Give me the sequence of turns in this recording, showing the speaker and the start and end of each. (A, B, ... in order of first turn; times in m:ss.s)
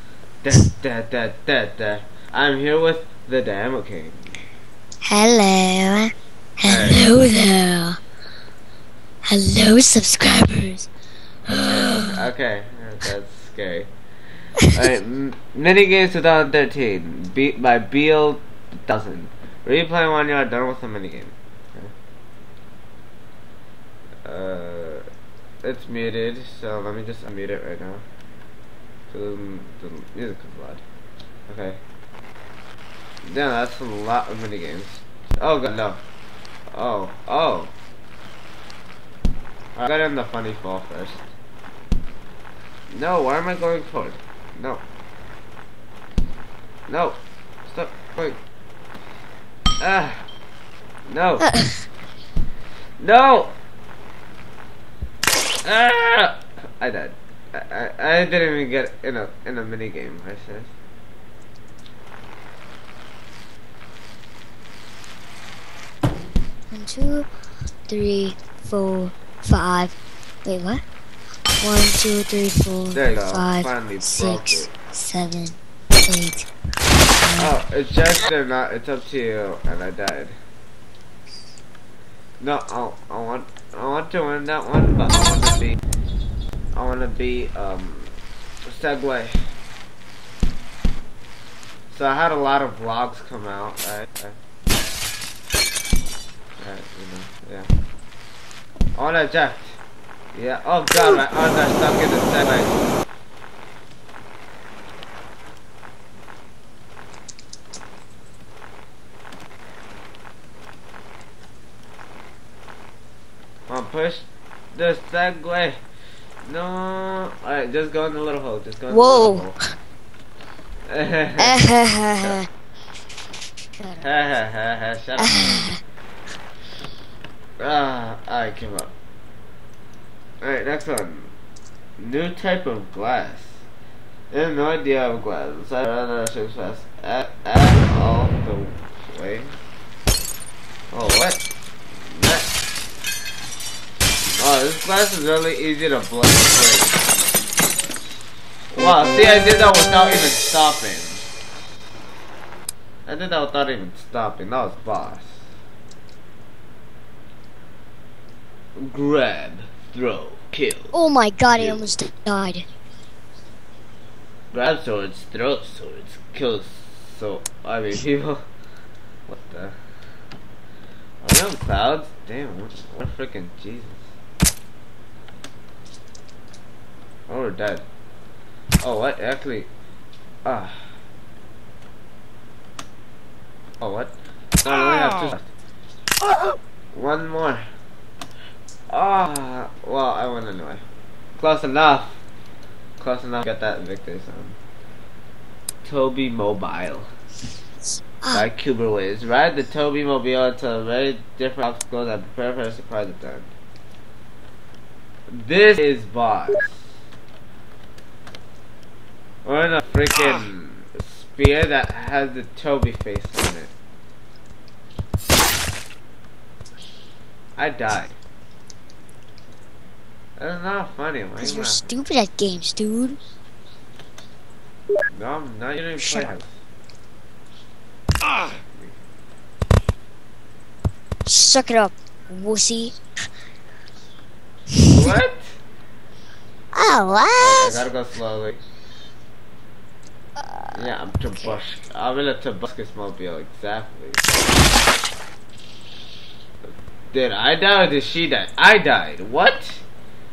0:00.4-0:04.4 A
0:05.0-0:08.0 B
0:06.6-0:07.1 A
0:09.3-0:10.9 B
0:11.5-0:12.2 B
0:11.6-0:13.9 A
0:14.7-0:21.9 A
0:24.2-0:25.1 A
0:25.6-0:28.0 A
0:29.1-0:30.8 A
0:31.5-0:31.8 A
0:33.2-0:36.0 A
0:36.7-0:37.7 A
0:39.8-0:41.3 A
0:42.9-0:44.8 A
0:46.9-0:48.4 A
0:49.8-0:50.2 A
0:51.1-0:51.5 A
0:51.4-0:51.8 B
0:53.0-0:53.6 A
0:55.6-1:00.7 A
1:06.7-1:07.3 B
1:07.9-1:10.8 B
1:11.6-1:16.5 B
1:12.9-1:14.7 A
1:17.2-1:17.5 B
1:17.4-1:20.4 A
1:22.4-1:25.8 A
1:26.8-1:28.2 A
1:28.7-1:29.4 A
1:31.9-1:34.4 A
1:36.6-1:37.7 A
1:39.0-1:39.8 A
1:40.3-1:42.8 A
1:53.7-1:55.8 A
1:56.4-1:59.5 A
1:58.9-1:59.7 B
2:00.9-2:01.7 A
2:01.4-2:02.5 B
2:04.0-2:05.6 A
2:05.2-2:05.8 B
2:07.6-2:08.9 A
2:10.4-2:11.3 A
2:12.0-2:13.6 A
2:14.3-2:19.6 A
2:20.9-2:21.4 A
2:22.0-2:22.5 A
2:24.4-2:27.0 A
2:28.7-2:31.3 A
2:33.1-2:35.5 A
2:38.8-2:40.9 A
2:40.9-2:42.7 B
2:41.5-2:41.9 A
2:44.5-2:48.4 A
2:49.3-2:49.8 A
2:51.2-2:54.1 A
2:57.3-2:57.8 A
2:58.8-2:59.7 A
3:00.4-3:00.9 A
3:03.8-3:05.5 A
3:06.9-3:07.7 A
3:08.9-3:10.8 A
3:11.4-3:12.2 A
3:13.0-3:14.6 A
3:15.8-3:17.1 A
3:18.2-3:18.5 B
3:18.3-3:23.5 A
3:25.3-3:26.9 A
3:29.4-3:33.7 A
3:37.6-3:38.2 A
3:40.4-3:41.9 A
3:41.4-3:43.2 B
3:45.1-3:46.6 A
3:46.0-3:46.3 B
3:51.3-3:53.0 B
3:54.7-3:55.0 B
3:54.8-3:55.6 A
3:56.7-3:57.8 B
3:57.4-3:58.6 A
4:00.4-4:00.8 B
4:00.7-4:04.2 A
4:07.1-4:09.8 A